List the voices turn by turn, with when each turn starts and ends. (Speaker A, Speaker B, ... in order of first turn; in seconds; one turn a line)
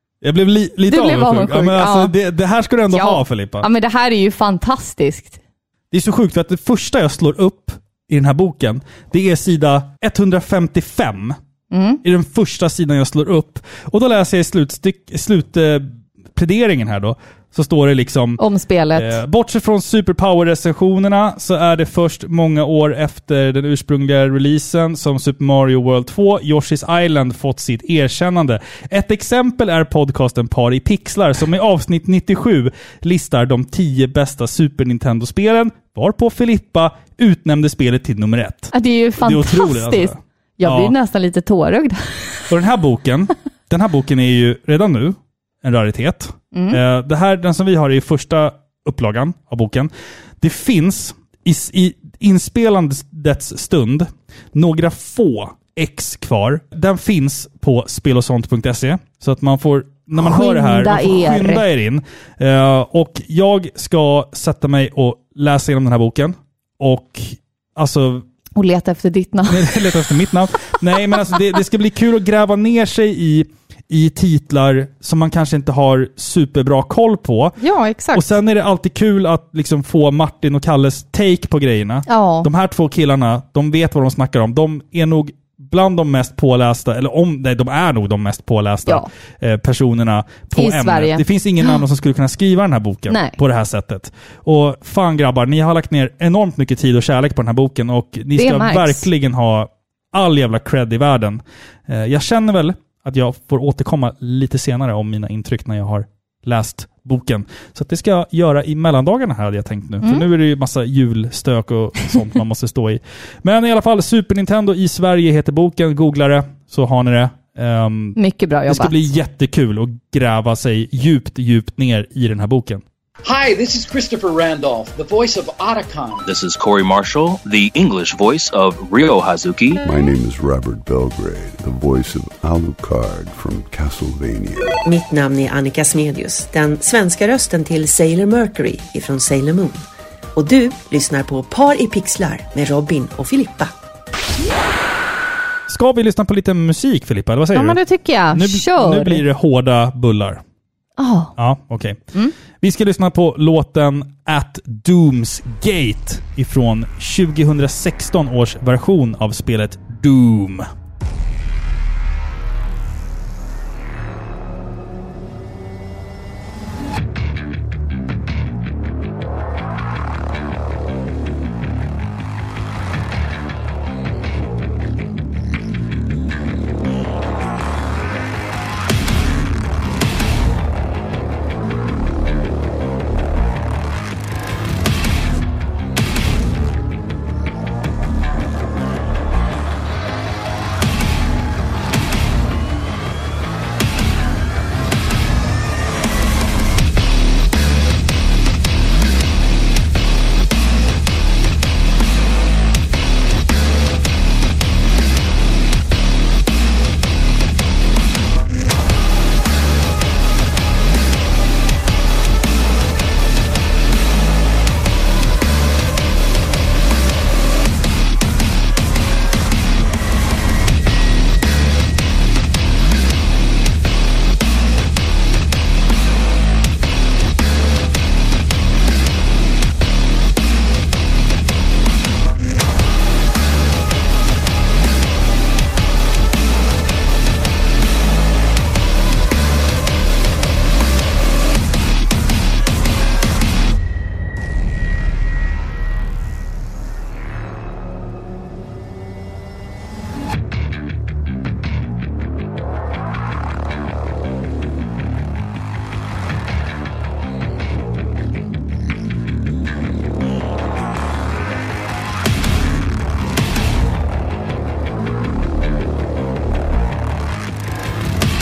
Speaker A: 0.2-3.7
Speaker B: 0.9-2.1
Speaker B: 2.9-5.4
Speaker A: 5.9-11.4
Speaker B: 11.7-12.0
Speaker A: 12.0-18.4
Speaker B: 18.4-19.2
Speaker A: 18.9-40.9
Speaker B: 38.7-42.5
Speaker A: 42.5-68.2
Speaker B: 46.5-46.8
Speaker B: 60.2-61.6
Speaker B: 68.5-69.7
Speaker A: 69.4-77.6
Speaker B: 77.6-78.3
Speaker A: 78.1-122.8
Speaker B: 82.1-82.5
Speaker B: 90.5-91.8
Speaker B: 93.1-93.4
Speaker B: 98.3-99.1
Speaker B: 118.2-119.1
Speaker C: 123.2-126.2
Speaker D: 126.2-129.8
Speaker E: 129.8-134.8
Speaker F: 134.8-139.8
Speaker F: 140.3-143.7
Speaker A: 145.7-150.4
Speaker B: 147.5-149.2
Speaker B: 151.0-151.3
Speaker A: 151.4-152.0
Speaker A: 152.5-160.7